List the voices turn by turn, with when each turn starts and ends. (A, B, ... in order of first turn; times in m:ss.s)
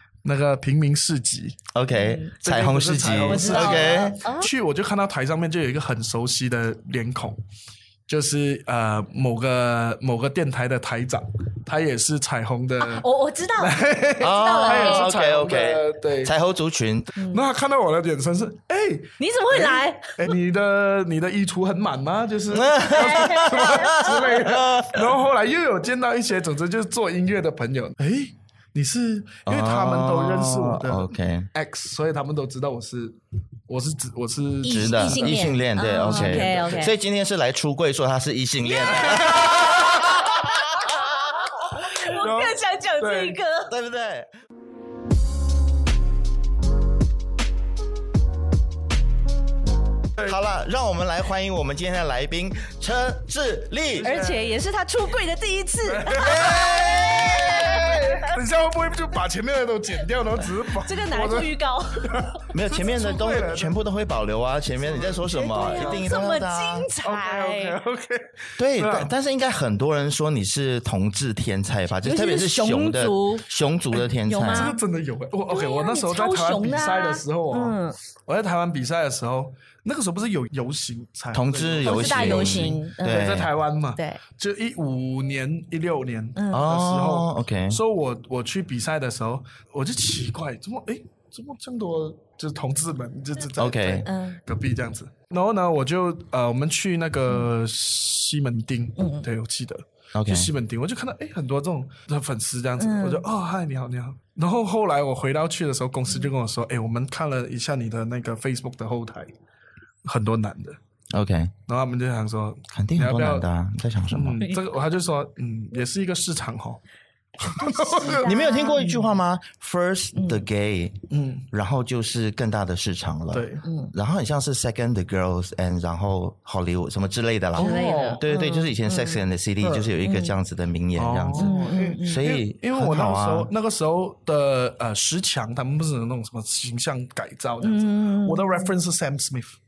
0:00.2-0:01.6 A
0:01.7-0:04.2 B
0:01.9-0:02.3 C
0:02.4-0:07.4 A
0:03.3-0:04.5 C
0:08.1-0:16.3 A
0:12.8-0:15.1 C
0:14.2-0:17.1 B
0:17.2-0:17.4 C
0:17.3-0:36.9 A
0:19.2-0:20.3 C
0:22.5-0:25.2 B
0:22.9-0:24.3 C
0:29.5-0:31.5 B
0:34.6-0:36.9 C
0:34.6-0:41.5 B
0:38.8-0:39.7 C
0:39.2-0:39.4 A
0:41.6-0:43.7 C
0:41.9-0:43.4 A
0:43.7-0:44.3 B
0:50.2-0:54.1 B
0:54.0-0:54.6 A
0:54.0-0:58.2 C
0:55.8-1:03.8 A
0:56.2-0:58.2 B
1:00.7-1:02.3 C
1:02.5-1:06.9 B
1:04.8-1:06.2 A
1:05.3-1:07.8 C
1:07.0-1:09.1 A
1:08.6-1:14.7 B
1:12.0-1:13.5 C
1:13.9-1:49.3 A
1:14.1-1:14.8 C
1:15.5-1:18.0 C
1:21.3-1:23.5 B
1:21.8-1:23.3 C
1:26.4-1:26.7 C
1:26.5-1:27.8 B
1:33.6-1:34.1 B
1:34.0-1:34.4 C
1:39.0-1:39.3 C
1:40.1-1:40.5 B
1:42.8-1:43.2 C
1:50.0-1:50.8 A
1:51.1-1:51.5 B
1:51.7-1:53.5 A
1:52.7-1:54.4 B
1:54.1-1:56.8 A
1:57.4-1:58.3 A
1:57.6-1:59.2 C
1:58.0-2:13.5 B
2:00.2-2:00.4 C
2:01.1-2:01.5 A
2:03.3-2:03.7 A
2:03.6-2:03.9 C
2:07.6-2:08.2 A
2:07.6-2:09.2 C
2:09.6-2:09.9 A
2:10.0-2:10.3 C
2:11.0-2:19.6 A
2:11.4-2:12.3 C
2:17.6-2:18.7 C